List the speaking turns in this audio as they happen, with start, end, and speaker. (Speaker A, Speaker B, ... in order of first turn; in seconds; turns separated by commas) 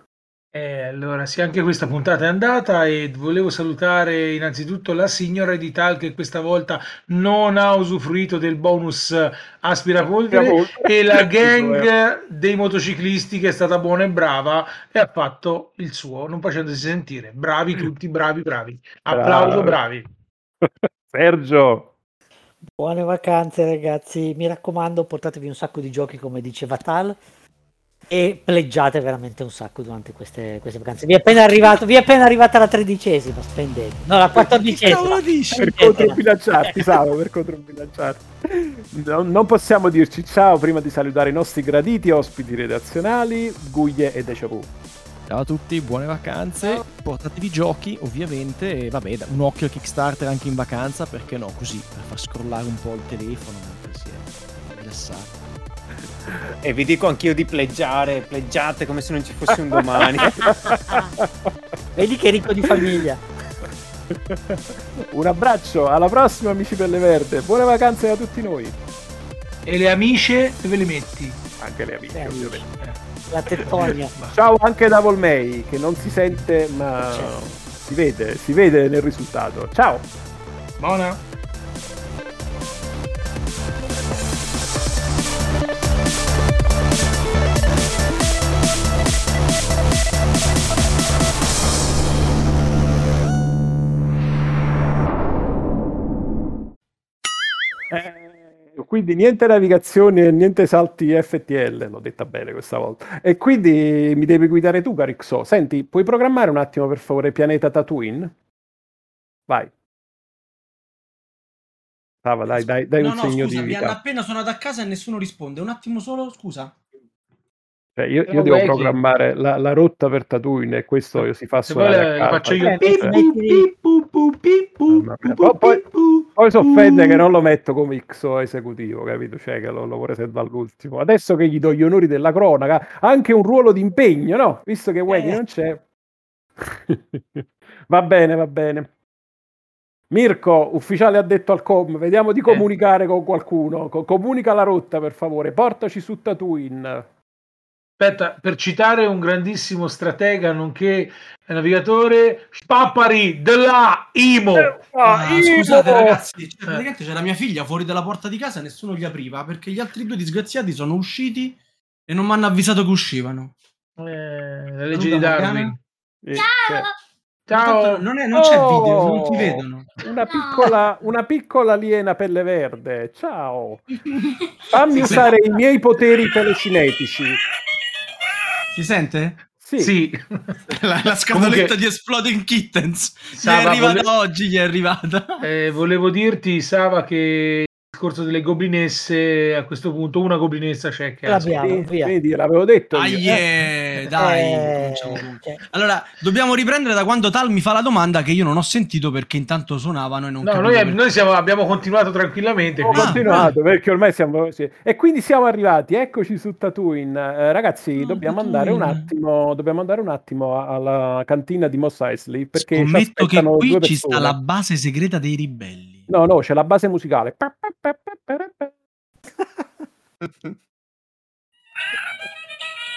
Speaker A: 0.5-20.1, Speaker B: 10.3-11.9, Speaker B: 19.1-19.8, Speaker B: 20.6-21.9, Speaker C: 22.8-27.2, Speaker C: 28.1-36.8, Speaker D: 34.5-35.7, Speaker B: 35.6-44.7, Speaker E: 45.3-55.3, Speaker F: 56.6-60.6, Speaker B: 60.6-61.2, Speaker C: 62.0-63.2, Speaker B: 62.7-63.0, Speaker B: 64.1-68.7, Speaker A: 69.6-71.4, Speaker B: 71.6-72.6, Speaker C: 72.1-72.7, Speaker C: 73.3-74.1, Speaker A: 73.5-74.4, Speaker B: 73.8-80.1, Speaker A: 80.8-81.2, Speaker B: 97.9-108.3, Speaker B: 112.2-114.0, Speaker D: 113.0-116.7, Speaker B: 118.0-123.2, Speaker A: 118.3-119.0, Speaker A: 121.2-127.2, Speaker C: 122.6-123.7, Speaker B: 124.9-125.8, Speaker B: 126.3-135.8, Speaker B: 136.6-138.9, Speaker B: 140.1-147.1, Speaker A: 148.0-154.8, Speaker B: 154.6-156.2, Speaker D: 155.0-163.5, Speaker A: 164.0-165.8, Speaker D: 164.9-165.7, Speaker B: 166.2-166.8, Speaker A: 167.5-168.1, Speaker D: 167.5-169.9, Speaker B: 168.3-173.9, Speaker B: 174.7-177.4, Speaker A: 174.9-175.3, Speaker D: 175.0-175.3, Speaker D: 178.7-179.4, Speaker B: 179.6-179.9, Speaker A: 179.8-180.6, Speaker D: 180.7-185.4, Speaker A: 181.3-181.7, Speaker A: 183.3-184.1, Speaker A: 185.4-191.6, Speaker C: 191.2-192.1, Speaker B: 191.6-193.4, Speaker D: 192.9-201.0, Speaker C: 194.2-195.6, Speaker A: 200.4-203.5, Speaker B: 202.9-214.4, Speaker D: 202.9-203.5, Speaker D: 207.9-209.1, Speaker D: 212.6-216.1, Speaker B: 216.1-218.7